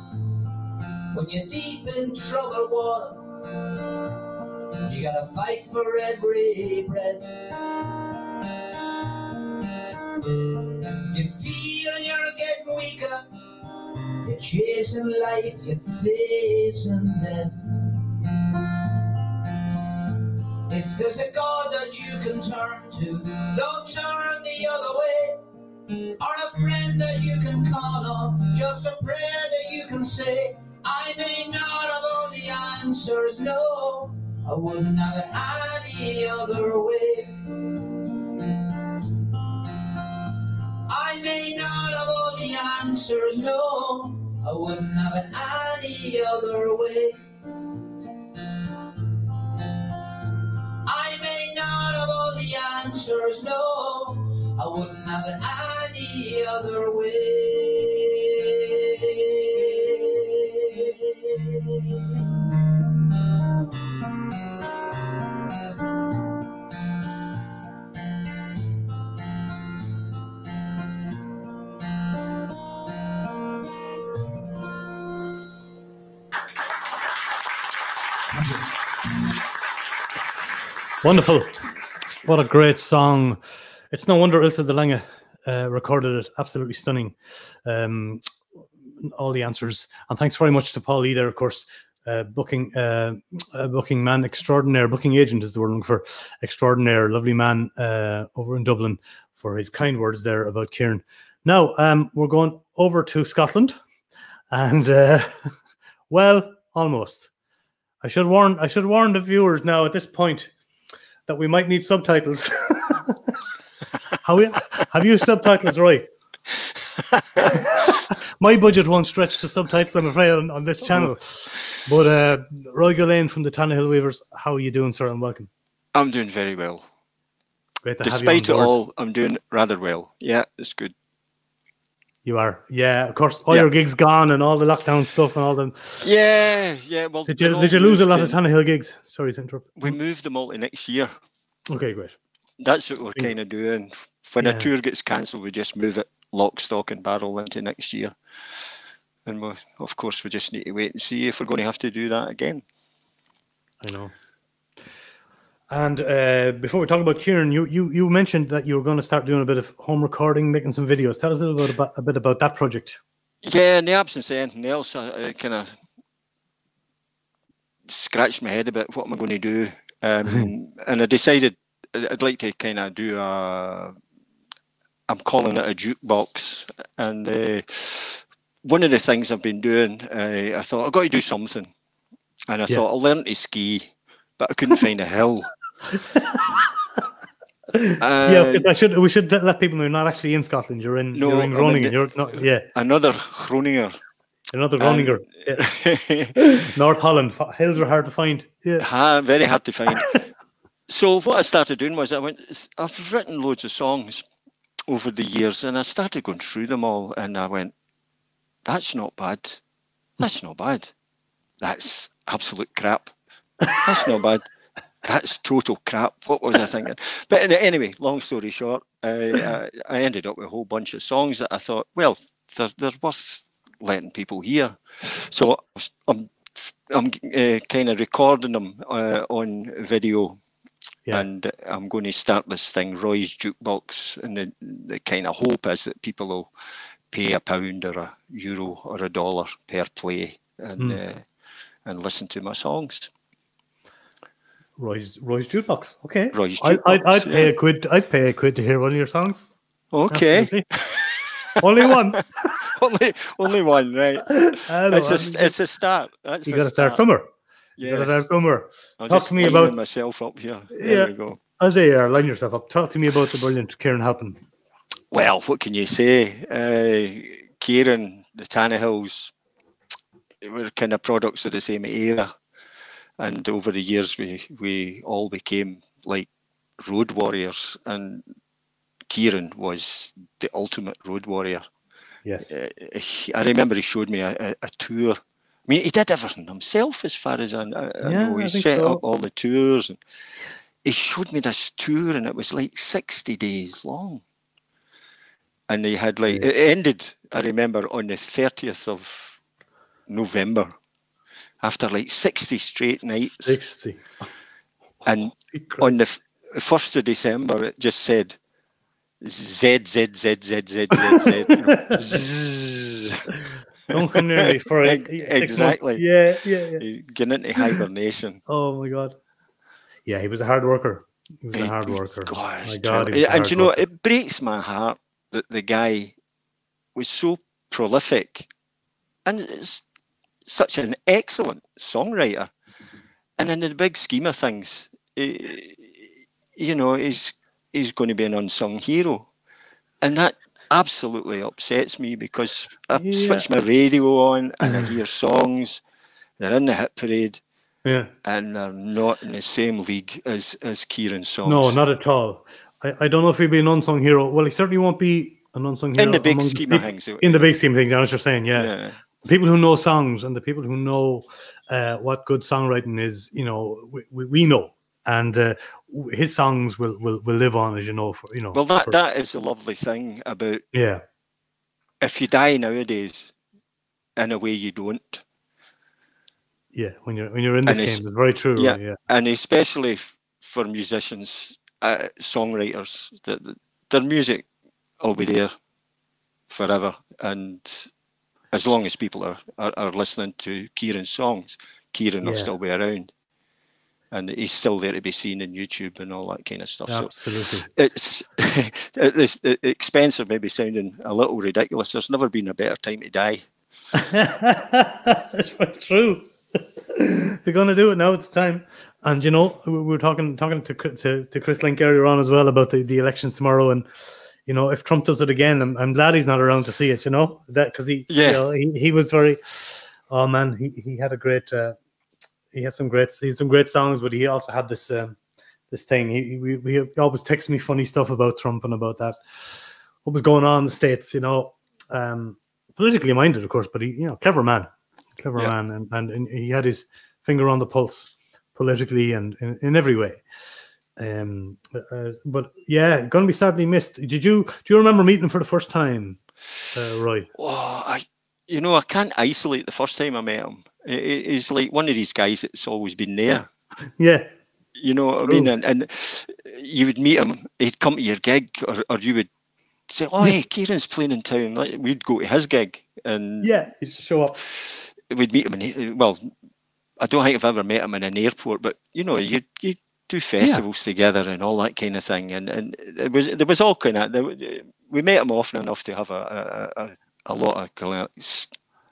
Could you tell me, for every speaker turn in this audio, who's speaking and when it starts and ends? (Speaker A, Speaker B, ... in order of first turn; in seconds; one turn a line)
Speaker A: 1.1-3.2
Speaker A: 4.9-7.2
Speaker A: 11.1-13.2
Speaker A: 14.3-17.5
Speaker A: 20.7-25.4
Speaker A: 26.2-37.3
Speaker A: 40.9-47.2
Speaker A: 50.9-57.9
Speaker B: 81.0-81.6
Speaker B: 82.2-83.4
Speaker B: 83.9-88.2
Speaker B: 89.0-103.8
Speaker B: 104.5-105.5
Speaker B: 106.1-107.3
Speaker B: 108.0-110.5
Speaker B: 111.3-113.3
Speaker B: 114.2-116.1
Speaker B: 117.4-125.5
Speaker C: 120.9-121.6
Speaker C: 126.0-126.9
Speaker B: 127.8-128.7
Speaker C: 128.0-130.9
Speaker B: 132.2-136.0
Speaker C: 136.0-138.4
Speaker B: 137.3-139.9
Speaker C: 139.8-141.1
Speaker B: 141.7-142.2
Speaker C: 142.6-148.2
Speaker B: 144.4-144.7
Speaker C: 149.3-152.6
Speaker B: 153.8-154.2
Speaker B: 155.7-163.0
Speaker C: 163.4-165.8
Speaker C: 167.9-173.9
Speaker C: 175.1-181.7
Speaker C: 182.5-185.5
Speaker B: 187.8-192.7
Speaker C: 188.0-188.7
Speaker C: 191.1-194.0
Speaker B: 194.5-195.7
Speaker C: 194.8-196.4
Speaker B: 196.4-198.9
Speaker C: 198.8-200.3
Speaker C: 200.9-204.3
Speaker C: 204.9-207.7
Speaker C: 208.7-209.6
Speaker C: 210.2-210.9
Speaker C: 211.6-213.2
Speaker C: 213.7-214.4
Speaker C: 215.0-230.4
Speaker C: 231.1-236.5
Speaker C: 237.1-241.3
Speaker C: 241.9-243.1
Speaker B: 244.8-249.5
Speaker C: 246.3-247.5
Speaker C: 249.9-251.3
Speaker B: 250.1-250.7
Speaker B: 251.6-252.2
Speaker C: 251.8-257.1
Speaker B: 254.3-255.6
Speaker B: 256.4-257.3
Speaker C: 257.8-258.1
Speaker B: 257.8-259.8
Speaker C: 259.0-261.4
Speaker B: 260.7-264.4
Speaker C: 265.1-269.3
Speaker C: 270.4-272.3
Speaker C: 273.2-278.3
Speaker C: 279.1-281.7
Speaker B: 282.2-282.5
Speaker C: 282.5-290.0
Speaker B: 288.0-289.0
Speaker C: 290.8-294.2
Speaker C: 295.7-299.4
Speaker C: 300.1-300.7
Speaker C: 301.6-303.8
Speaker B: 303.2-304.3
Speaker B: 305.0-306.0
Speaker C: 305.0-308.4
Speaker C: 309.2-313.2
Speaker B: 311.7-312.3
Speaker B: 313.9-316.8
Speaker C: 314.4-316.1
Speaker C: 316.8-318.4
Speaker B: 318.5-319.2
Speaker B: 320.1-323.9
Speaker C: 321.6-326.2
Speaker C: 326.9-328.5
Speaker C: 329.3-329.8
Speaker C: 330.5-332.5
Speaker C: 333.4-339.3
Speaker C: 340.0-345.8
Speaker B: 342.9-343.5
Speaker B: 344.6-344.9
Speaker C: 346.4-347.4
Speaker B: 347.9-348.1
Speaker C: 348.2-351.8
Speaker B: 351.4-358.7
Speaker C: 356.0-357.6
Speaker C: 358.5-359.0
Speaker B: 359.2-369.0
Speaker C: 368.5-370.7
Speaker B: 370.7-371.0
Speaker C: 372.0-373.4
Speaker C: 374.2-375.2
Speaker B: 376.7-379.0
Speaker C: 377.7-385.6
Speaker C: 386.5-387.9
Speaker C: 388.5-393.1
Speaker B: 392.2-392.5
Speaker C: 394.1-403.5
Speaker B: 396.9-397.7
Speaker B: 404.0-413.9
Speaker B: 414.5-421.8
Speaker C: 418.1-418.4
Speaker B: 422.5-425.2
Speaker B: 425.7-429.2
Speaker B: 430.0-440.2
Speaker B: 441.0-446.2
Speaker B: 446.7-447.3
Speaker C: 447.4-453.5
Speaker B: 454.0-454.3
Speaker C: 454.8-459.3
Speaker C: 459.9-463.6
Speaker B: 463.4-464.4
Speaker C: 464.4-466.3
Speaker C: 467.0-478.6